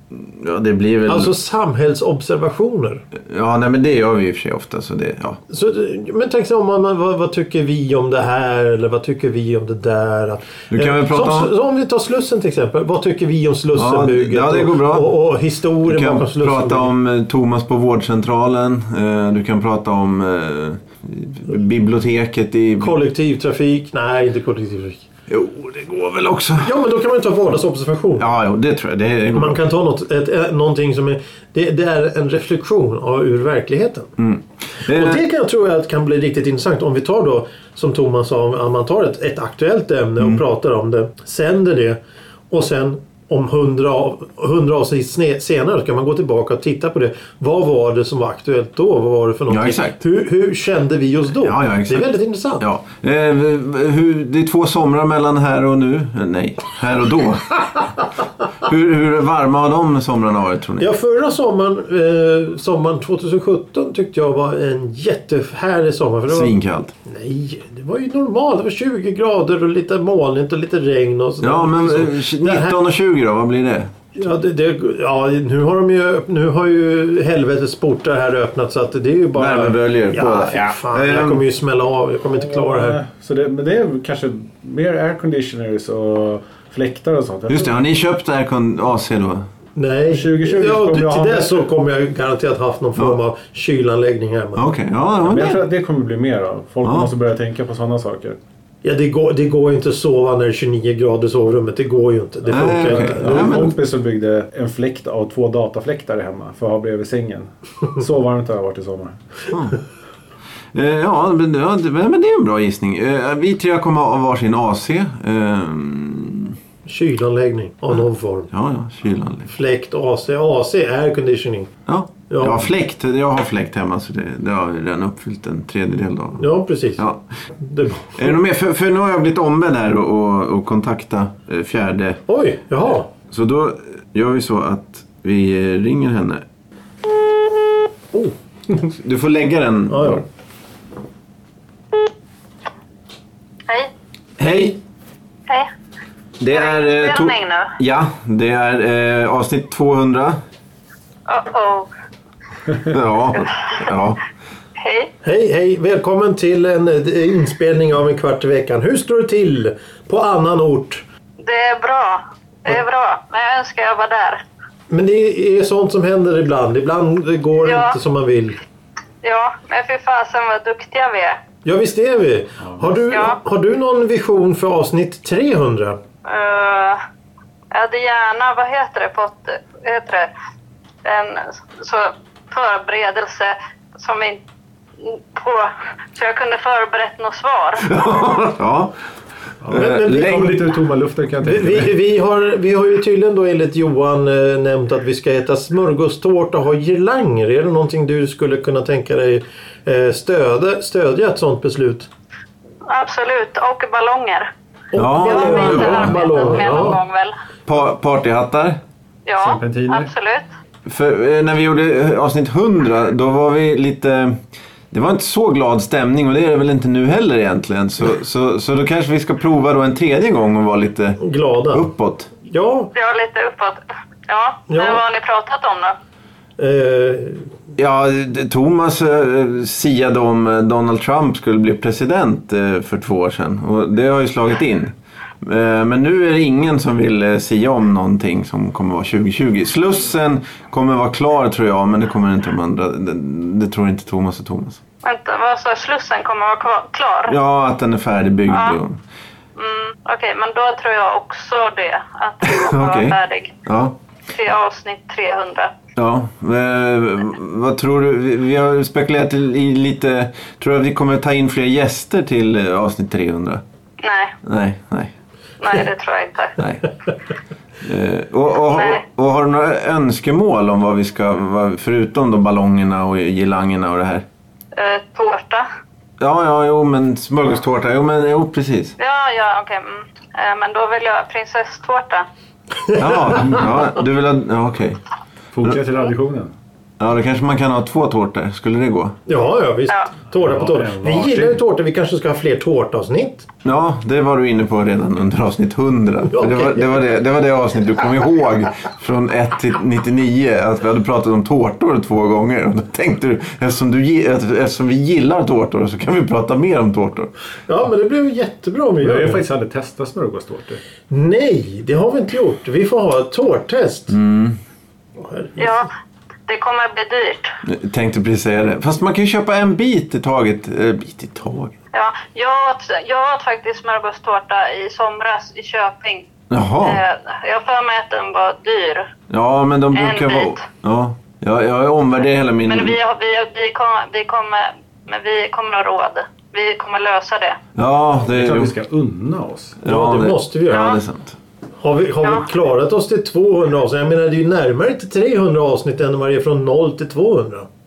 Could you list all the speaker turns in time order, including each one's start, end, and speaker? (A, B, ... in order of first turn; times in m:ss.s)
0:00.1-0:01.3 A
0:01.1-0:03.0 B
0:03.2-0:05.4 A
0:05.5-0:16.9 B
0:10.7-0:11.5 A
0:13.7-0:15.2 A
0:15.8-0:22.9 A
0:22.8-0:25.1 B
0:25.3-0:26.7 A
0:26.6-0:28.2 B
0:28.2-0:29.6 A
0:29.3-0:34.1 B
0:34.2-0:35.2 A
0:34.8-0:42.0 B
0:42.5-0:52.6 B
0:49.5-0:50.0 A
0:51.4-0:57.9 A
0:58.6-1:00.9 A
1:00.8-1:12.8 B
1:06.3-1:06.9 A
1:11.4-1:13.9 A
1:14.1-1:23.0 B
1:19.3-1:21.4 A
1:22.4-1:27.8 C
1:27.5-1:29.4 A
1:29.8-1:34.6 B
1:30.1-1:31.6 C
1:34.6-1:35.6 A
1:35.2-1:38.4 C
1:36.8-1:37.1 A
1:38.8-1:43.7 B
1:42.5-1:43.8 A
1:42.5-1:49.2 C
1:49.5-1:49.8 A
1:50.7-1:56.6 A
1:56.8-1:58.5 B
1:58.5-1:59.5 A
1:59.5-2:01.7 B
2:01.9-2:06.4 A
2:02.3-2:02.6 B
2:06.4-2:07.0 B
2:07.0-2:07.2 A
2:07.6-2:08.3 B
2:08.2-2:12.2 A
2:12.3-2:13.1 B
2:13.3-2:16.4 A
2:18.8-2:20.2 A
2:19.9-2:20.2 B
2:24.4-2:24.8 A
2:24.5-2:24.7 D
2:26.4-2:30.4 A
2:26.5-2:27.7 D
2:31.3-2:31.9 D
2:32.8-2:34.2 A
2:34.8-2:35.1 D
2:35.2-2:41.0 B
2:41.4-2:44.4 D
2:44.9-2:48.6 B
2:47.6-2:47.9 D
2:49.2-2:51.4 D
2:51.6-2:56.0 B
2:53.1-2:53.4 D
2:56.2-2:57.0 D
2:57.7-3:00.3 D
3:01.0-3:04.4 D
3:05.0-3:08.0 D
3:07.8-3:09.0 A
3:09.6-3:11.9 C
3:09.7-3:10.6 A
3:09.7-3:10.6 B
3:11.4-3:22.1 B
3:22.9-3:24.5 D
3:24.9-3:27.0 B
3:25.0-3:26.2 A
3:25.2-3:27.3 D
3:25.6-3:27.0 C
3:27.6-3:28.8 A
3:29.2-3:30.5 D
3:29.4-3:30.1 C
3:30.8-3:34.4 A
3:34.9-3:41.2 A
3:41.2-3:41.9 B
3:41.7-3:42.3 A
3:42.4-3:42.9 B
3:42.9-3:46.0 D
3:44.7-3:45.0 B
3:46.6-3:47.5 B
3:47.8-4:04.8 A
4:05.0-4:07.4 D
4:07.3-4:09.0 A
4:08.5-4:08.8 D
4:09.6-4:13.5 D
4:12.4-4:14.0 A
4:14.3-4:15.7 D
4:16.0-4:23.6 A
4:24.0-4:24.4 D
4:24.4-4:25.1 A
4:25.6-4:26.6 D
4:26.6-4:26.8 A
4:27.8-4:34.2 A
4:28.7-4:29.0 D
4:34.7-4:35.7 D
4:36.2-4:39.0 A
4:39.0-4:42.2 D
4:42.8-4:43.6 B
4:42.9-4:45.0 A
4:45.5-4:46.5 C
4:47.0-4:49.2 A
4:49.3-4:53.4 B
4:50.4-4:51.6 C
4:53.6-5:07.3 A
4:56.3-4:57.0 B
5:07.7-5:09.4 B
5:09.0-5:10.8 C
5:11.1-5:14.2 B
5:14.1-5:14.6 A
5:15.2-5:15.8 B
5:15.6-5:15.9 D
5:16.5-5:17.6 D
5:17.6-5:21.7 A
5:21.9-5:26.3 D
5:26.5-5:27.0 A
5:26.8-5:29.1 D
5:29.3-5:33.0 A
5:29.9-5:30.6 D
5:32.7-5:37.6 D
5:37.7-5:38.7 A
5:38.2-5:39.8 C
5:39.8-5:41.4 A
5:39.8-5:41.0 B
5:40.7-5:41.0 D
5:41.8-5:47.7 B